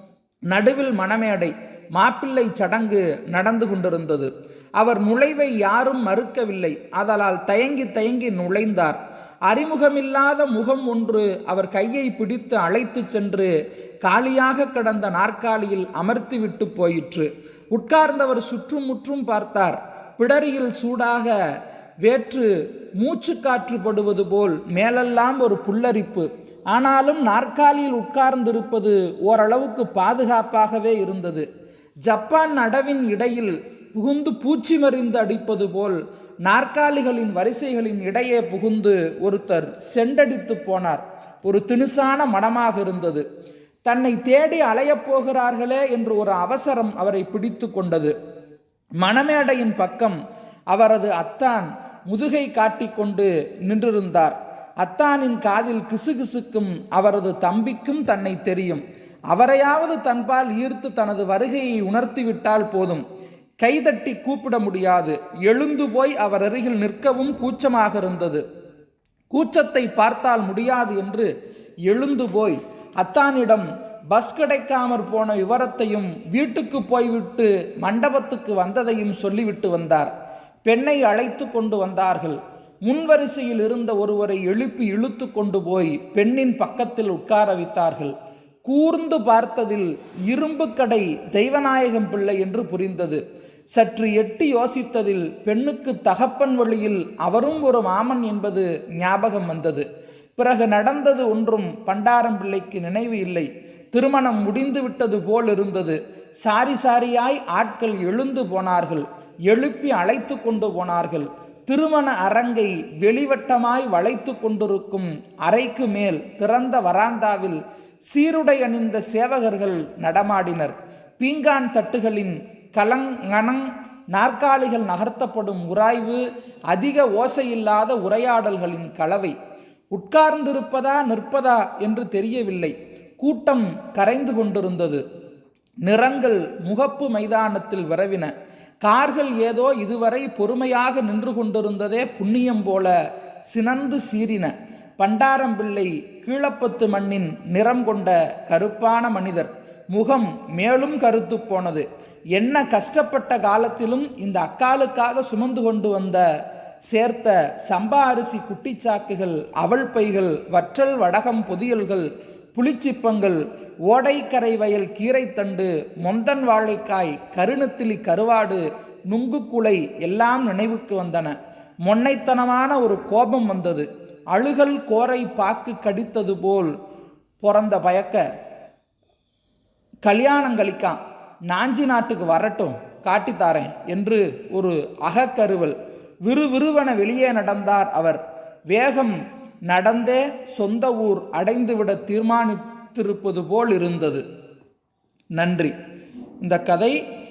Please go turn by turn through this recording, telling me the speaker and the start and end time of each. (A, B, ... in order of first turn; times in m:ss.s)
0:00.5-0:13.5 A
0:14.0-0:21.3 A
0:22.0-0:31.4 A
0:32.1-0:43.2 A
0:43.8-0:48.1 A
0:49.0-0:50.2 A
0:50.7-1:03.0 A
1:03.6-1:08.4 A
1:09.3-1:11.3 A
1:11.8-1:20.1 A
1:20.6-1:33.2 A
1:33.8-1:39.8 A
1:40.4-2:09.3 A
2:09.9-2:15.0 A
2:15.8-2:18.3 A
2:18.8-2:22.9 A
2:23.5-2:36.2 A
2:36.9-2:56.7 A
2:57.4-2:58.2 A
3:00.0-3:01.0 A
3:01.5-3:14.2 A
3:15.4-3:15.7 A
3:16.4-3:17.0 A